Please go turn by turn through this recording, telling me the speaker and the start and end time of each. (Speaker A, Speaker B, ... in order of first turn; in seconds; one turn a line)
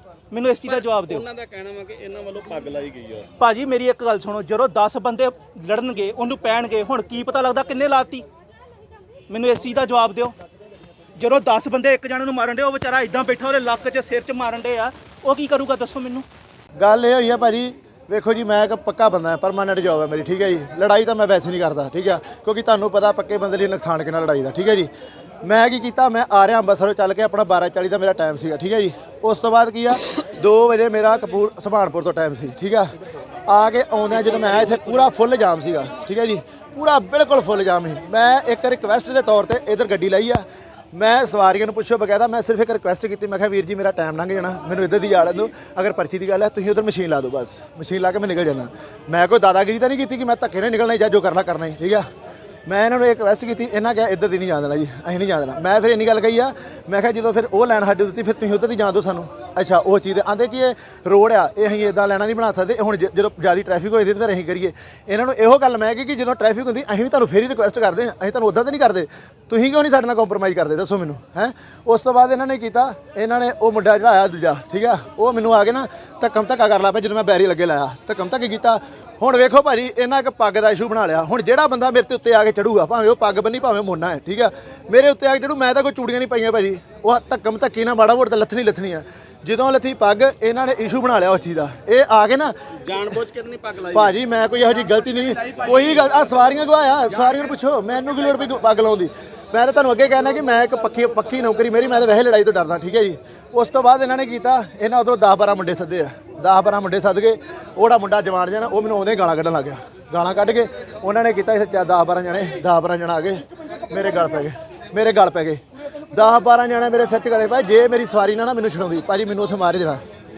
Speaker A: 0.3-1.3
Speaker B: 1.2-3.2
Speaker A: 3.4-8.2
Speaker A: 9.3-10.3
Speaker A: 11.2-16.2
Speaker C: 16.8-24.9
Speaker C: 25.4-32.9
Speaker C: 33.5-52.0
Speaker C: 52.6-93.1
Speaker B: 92.9-94.0
Speaker C: 93.9-115.6
Speaker C: 116.1-120.0